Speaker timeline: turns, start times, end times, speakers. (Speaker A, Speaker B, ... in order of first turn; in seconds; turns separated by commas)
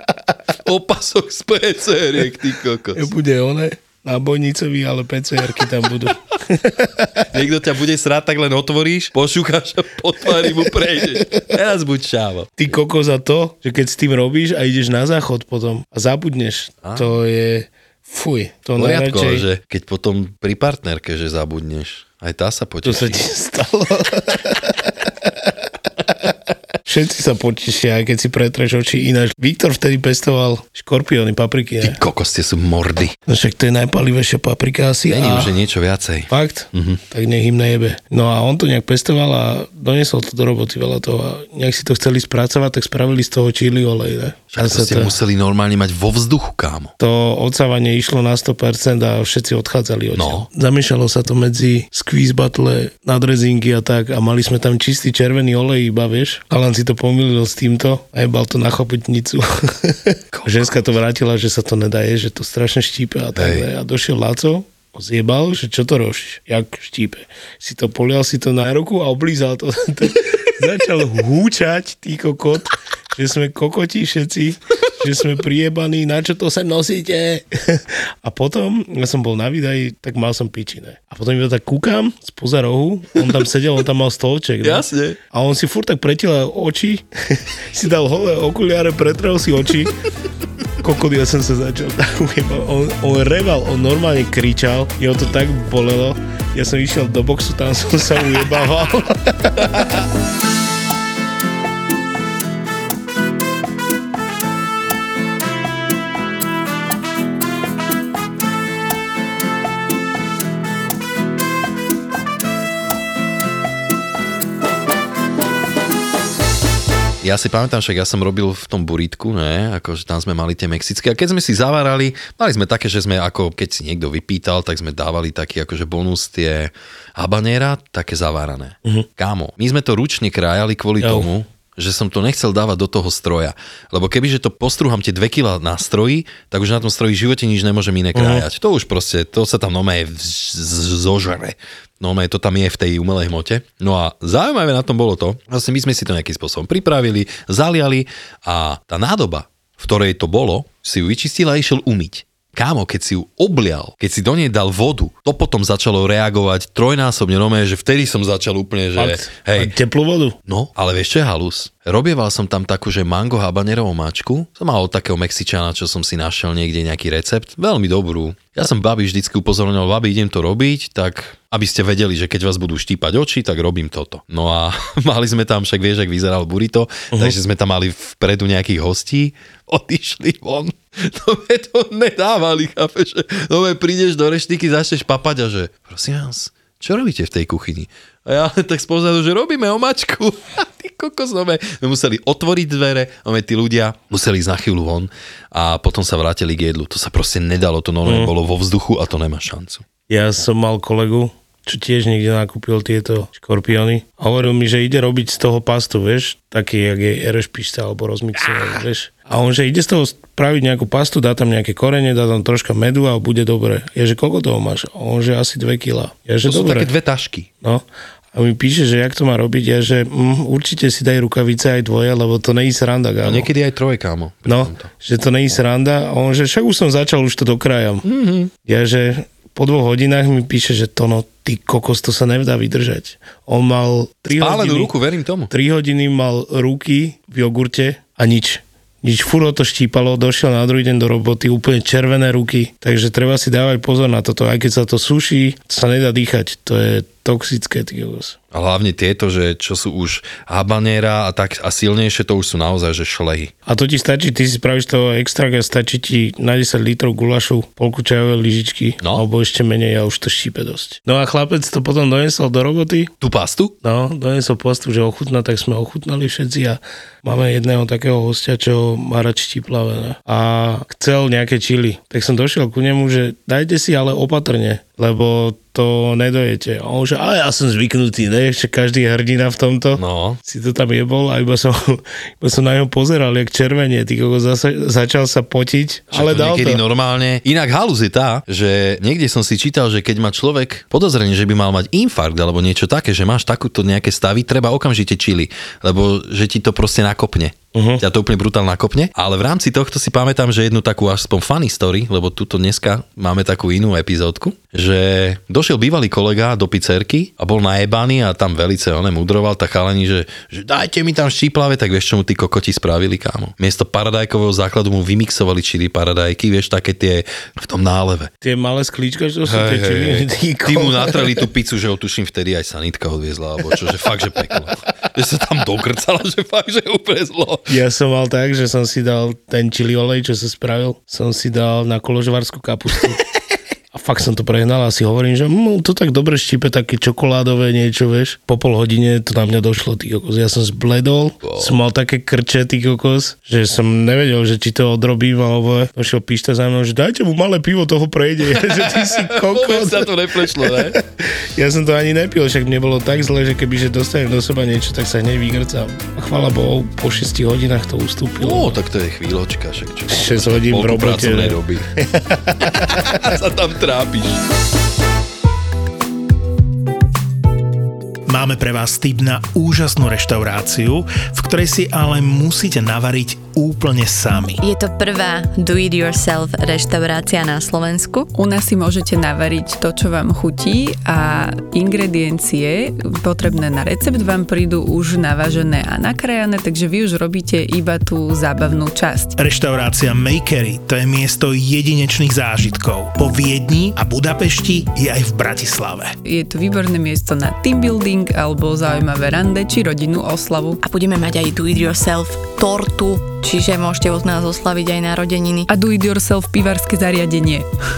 Speaker A: 0.6-3.1, Speaker B: 3.0-7.2, Speaker A: 7.3-12.8, Speaker B: 10.4-11.4, Speaker B: 12.6-19.5, Speaker A: 16.8-17.1, Speaker A: 18.8-23.3, Speaker B: 22.8-25.1, Speaker B: 26.9-32.0, Speaker A: 31.8-33.2, Speaker B: 33.3-35.5, Speaker A: 35.1-37.0, Speaker B: 36.3-45.1, Speaker A: 44.5-46.9, Speaker B: 47.0-89.9, Speaker A: 50.1-50.5, Speaker A: 60.3-60.7, Speaker A: 63.4-63.7, Speaker A: 84.6-85.2, Speaker B: 90.8-99.9, Speaker A: 117.2-159.7, Speaker B: 131.0-131.3, Speaker B: 138.2-138.4, Speaker B: 159.0-160.4, Speaker A: 160.5-199.8, Speaker B: 198.1-198.3, Speaker B: 200.1-216.9, Speaker A: 216.4-217.5, Speaker B: 218.3-223.5, Speaker A: 223.2-224.9, Speaker B: 224.5-228.1, Speaker A: 228.0-228.5, Speaker B: 228.6-234.9, Speaker A: 234.3-235.5, Speaker B: 235.5-248.4, Speaker A: 248.5-253.5, Speaker B: 253.7-263.1, Speaker A: 263.2-263.8, Speaker B: 263.8-286.8, Speaker A: 280.0-280.4, Speaker A: 286.1-318.3, Speaker B: 297.8-298.0, Speaker B: 318.4-321.5, Speaker A: 319.5-327.8, Speaker B: 327.7-333.3, Speaker B: 333.9-351.0, Speaker A: 341.4-341.8, Speaker A: 348.4-351.0, Speaker B: 351.6-358.8, Speaker A: 358.4-361.9, Speaker B: 360.1-363.2, Speaker A: 362.6-364.4, Speaker C: 368.3-374.6, Speaker D: 374.6-378.3, Speaker E: 378.3-389.4, Speaker C: 389.4-396.1, Speaker E: 396.2-400.8, Speaker D: 400.8-405.7, Speaker E: 405.7-407.7